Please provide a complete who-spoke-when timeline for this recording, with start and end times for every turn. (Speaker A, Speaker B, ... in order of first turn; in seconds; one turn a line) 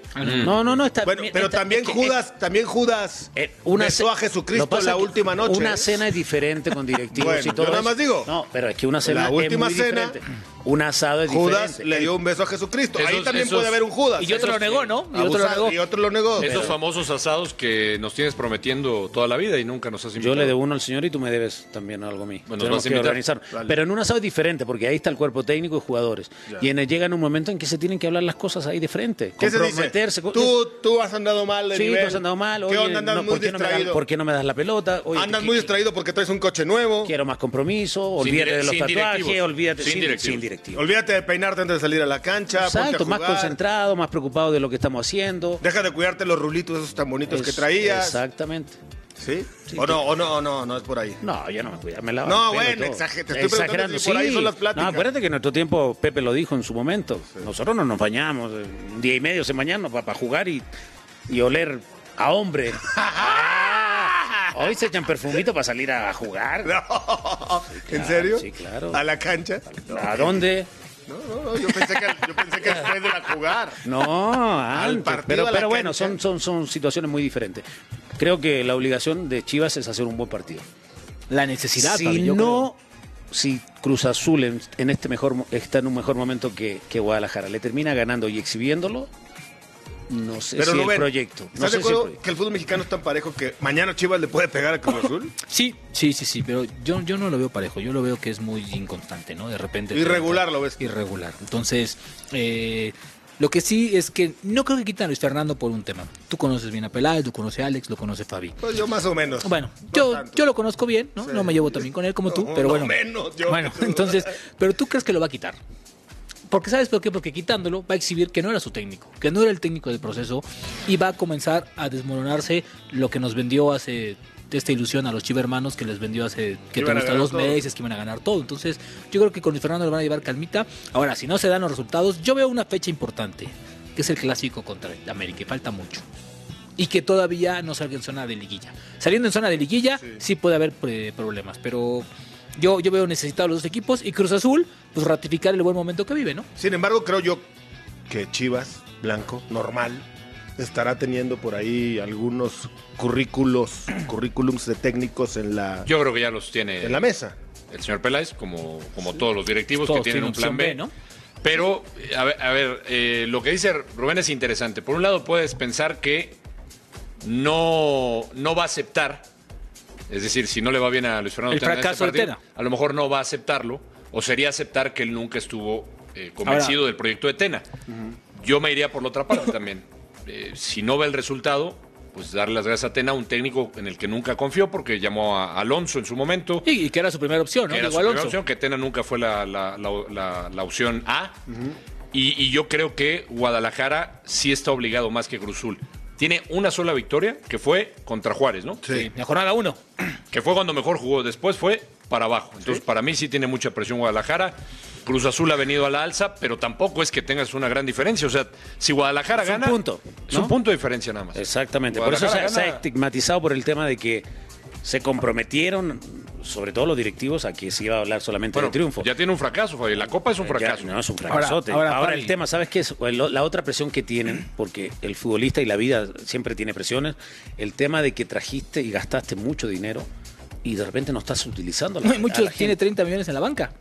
Speaker A: 0.1-0.5
Speaker B: 0.2-0.6
Speaker C: 0.4-2.2
Speaker D: 1.0-6.1
Speaker C: 3.4-12.1
Speaker D: 7.1-8.3
Speaker D: 9.0-10.2
Speaker D: 11.3-16.7
Speaker B: 12.9-13.8
Speaker A: 14.2-15.8
Speaker B: 16.4-20.5
Speaker C: 16.4-16.8
Speaker C: 20.2-30.6
Speaker B: 22.5-23.2
Speaker D: 23.5-23.8
Speaker D: 29.4-34.0
Speaker C: 31.7-35.7
Speaker D: 35.1-37.1
Speaker C: 37.0-40.9
Speaker B: 38.2-40.5
Speaker D: 40.7-43.6
Speaker C: 42.6-45.6
Speaker D: 45.6-48.2
Speaker C: 47.3-48.8
Speaker D: 49.2-51.2
Speaker C: 49.7-50.0
Speaker C: 51.2-60.6
Speaker D: 52.2-55.1
Speaker C: 61.3-66.8
Speaker D: 62.9-64.4
Speaker D: 66.6-70.5
Speaker C: 67.7-69.0
Speaker C: 69.8-70.7
Speaker D: 71.1-73.8
Speaker C: 73.8-77.6
Speaker D: 74.7-76.2
Speaker C: 78.2-80.6
Speaker A: 81.3-82.7
Speaker C: 81.8-82.8
Speaker C: 83.3-89.1
Speaker C: 90.1-92.2
Speaker D: 90.5-95.3
Speaker A: 95.5-108.6
Speaker D: 99.9-100.8
Speaker D: 108.6-110.4
Speaker A: 109.4-115.6
Speaker D: 111.2-114.2
Speaker A: 116.5-136.0
Speaker D: 126.7-127.6
Speaker A: 136.8-146.5
Speaker D: 146.6-147.5
Speaker D: 148.1-150.0
Speaker D: 150.6-155.9
Speaker B: 155.8-157.1
Speaker D: 156.8-157.3
Speaker B: 157.7-160.8
Speaker A: 159.8-160.9
Speaker B: 161.4-166.4
Speaker B: 167.2-169.2
Speaker B: 170.1-177.6
Speaker A: 171.5-172.4
Speaker A: 176.4-176.8
Speaker B: 178.4-186.7
Speaker A: 186.6-188.4
Speaker B: 187.7-191.4
Speaker D: 191.5-191.8
Speaker B: 192.1-198.8
Speaker A: 198.9-199.8
Speaker B: 200.3-212.8
Speaker C: 209.3-210.6
Speaker C: 211.3-214.2
Speaker C: 214.8-219.1
Speaker B: 218.5-221.0
Speaker C: 220.4-230.1
Speaker A: 221.3-222.3
Speaker C: 230.6-232.8
Speaker A: 232.0-233.7